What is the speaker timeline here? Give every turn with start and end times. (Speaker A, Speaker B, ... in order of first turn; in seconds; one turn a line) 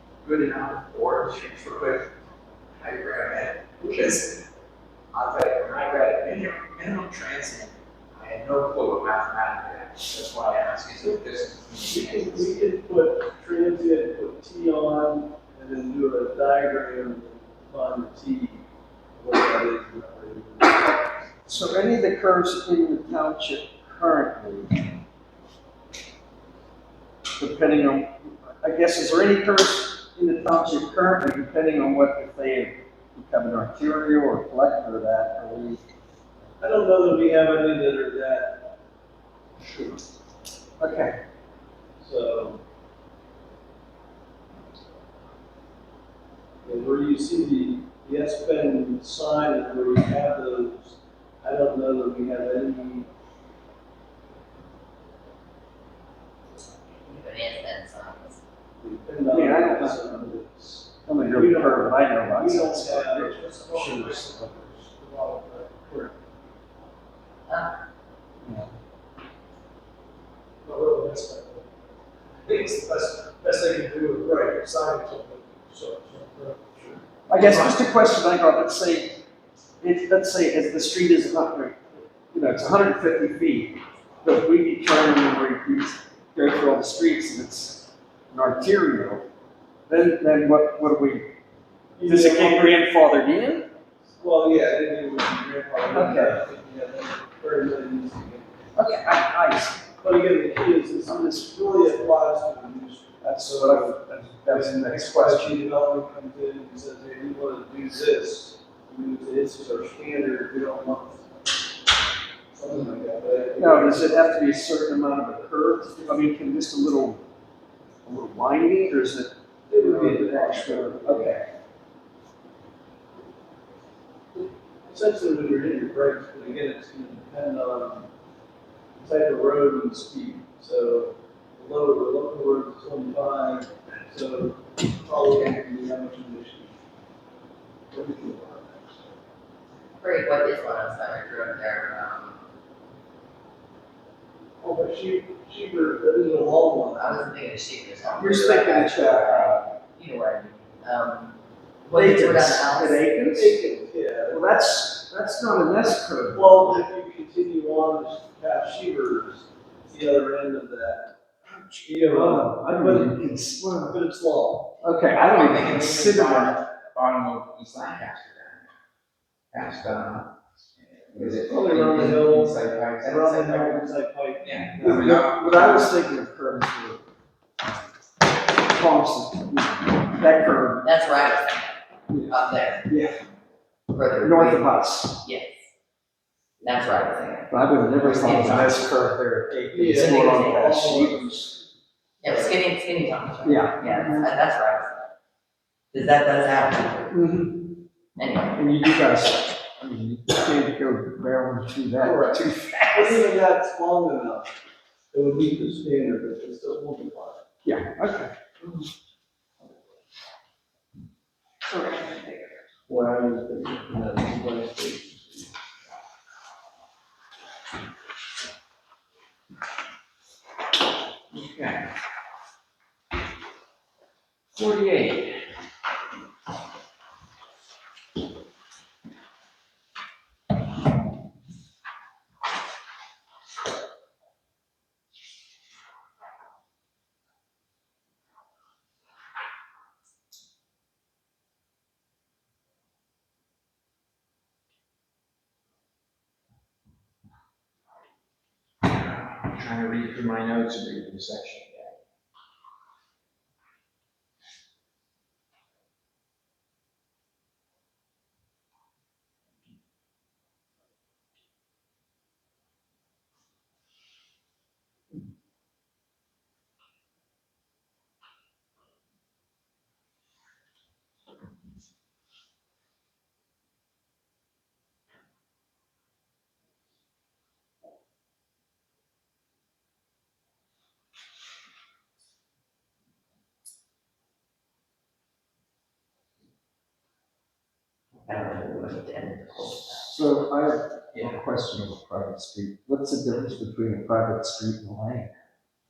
Speaker A: 0.2-2.1
Speaker A: 2.8-4.5
Speaker A: 5.1-12.7
Speaker B: 11.8-18.6
Speaker B: 19.1-21.7
Speaker C: 21.5-24.8
Speaker C: 27.4-35.8
Speaker B: 36.6-38.7
Speaker B: 39.6-40.0
Speaker C: 40.8-41.2
Speaker B: 42.0-42.6
Speaker B: 46.6-53.1
Speaker D: 57.0-58.4
Speaker B: 58.8-63.4
Speaker C: 59.2-60.1
Speaker C: 61.0-64.8
Speaker E: 63.3-65.8
Speaker B: 65.7-66.1
Speaker D: 67.5-67.8
Speaker C: 68.4-68.7
Speaker E: 70.6-71.7
Speaker E: 72.4-76.7
Speaker B: 72.5-72.7
Speaker B: 74.2-77.0
Speaker C: 77.3-79.2
Speaker E: 77.3-77.7
Speaker C: 79.8-89.3
Speaker C: 89.9-91.3
Speaker B: 92.0-92.8
Speaker C: 92.0-93.7
Speaker B: 94.2-98.5
Speaker C: 95.9-96.4
Speaker C: 98.7-99.8
Speaker B: 100.0-111.3
Speaker C: 101.1-101.4
Speaker C: 103.2-105.6
Speaker B: 112.5-114.3
Speaker C: 113.6-117.2
Speaker C: 118.0-121.5
Speaker B: 119.7-121.4
Speaker B: 124.8-128.1
Speaker B: 129.0-136.7
Speaker B: 137.9-139.1
Speaker D: 140.0-142.4
Speaker B: 144.6-147.2
Speaker D: 146.9-153.1
Speaker B: 148.1-149.4
Speaker C: 148.2-149.7
Speaker C: 151.9-153.6
Speaker B: 153.3-154.6
Speaker C: 154.3-156.8
Speaker B: 156.3-161.1
Speaker C: 161.5-164.0
Speaker B: 161.8-163.2
Speaker B: 163.8-164.7
Speaker C: 164.8-166.6
Speaker A: 165.2-168.6
Speaker A: 169.5-170.3
Speaker A: 171.0-173.9
Speaker B: 171.2-175.9
Speaker C: 171.3-172.1
Speaker A: 174.4-175.9
Speaker C: 174.8-177.0
Speaker C: 178.5-180.9
Speaker D: 180.8-182.8
Speaker C: 182.1-183.2
Speaker D: 183.9-185.6
Speaker C: 184.2-185.2
Speaker D: 186.6-188.9
Speaker C: 187.5-191.6
Speaker B: 189.7-191.6
Speaker D: 192.2-195.1
Speaker B: 192.3-192.5
Speaker C: 193.4-194.3
Speaker D: 195.9-197.2
Speaker C: 197.1-197.7
Speaker D: 198.2-198.6
Speaker C: 198.5-203.2
Speaker B: 202.0-204.5
Speaker B: 205.1-207.4
Speaker C: 207.6-208.3
Speaker D: 211.6-212.6
Speaker B: 212.9-215.4
Speaker A: 221.3-221.9
Speaker A: 224.5-225.5
Speaker A: 248.8-251.9
Speaker D: 288.3-290.2
Speaker C: 289.6-295.3